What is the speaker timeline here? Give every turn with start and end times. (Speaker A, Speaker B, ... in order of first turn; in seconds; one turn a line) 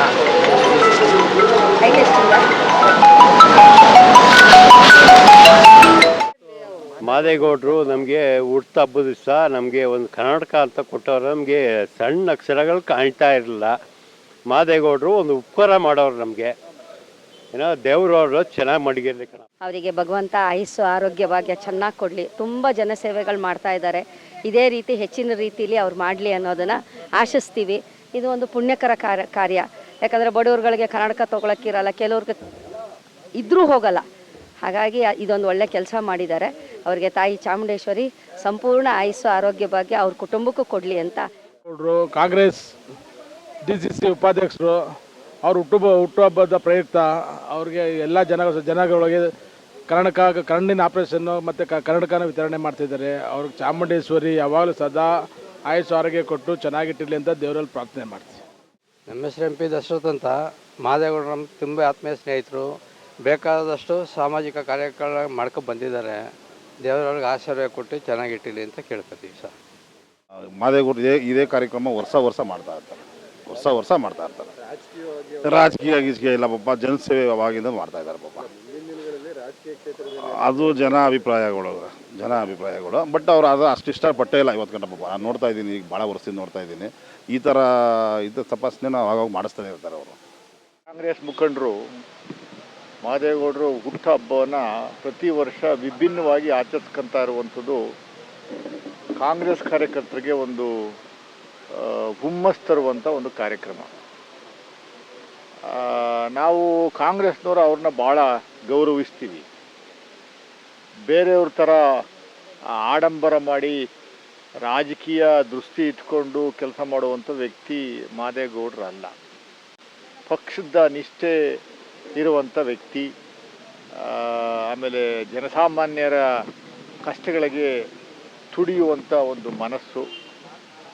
Speaker A: 1.8-2.4
Speaker B: 7.0-13.7
Speaker B: 14.5-16.5
Speaker B: 17.5-19.4
Speaker A: 19.6-32.4
Speaker A: 33.4-34.0
Speaker A: 34.6-41.2
Speaker C: 41.7-42.7
Speaker C: 43.6-44.9
Speaker C: 45.5-49.3
Speaker C: 49.9-55.1
Speaker C: 55.7-58.4
Speaker D: 59.1-62.7
Speaker D: 63.2-66.2
Speaker D: 66.8-69.5
Speaker E: 70.6-74.5
Speaker E: 75.4-78.5
Speaker E: 80.1-90.2
Speaker F: 90.9-91.7
Speaker F: 93.0-97.8
Speaker F: 99.2-100.7
Speaker F: 101.8-103.9
Speaker F: 105.7-109.4
Speaker F: 111.1-111.8
Speaker F: 112.9-113.7
Speaker F: 114.7-119.1
Speaker F: 120.3-121.3
Speaker F: 122.2-123.1
Speaker F: 124.0-126.2
Speaker F: 127.0-127.7
Speaker F: 128.5-130.1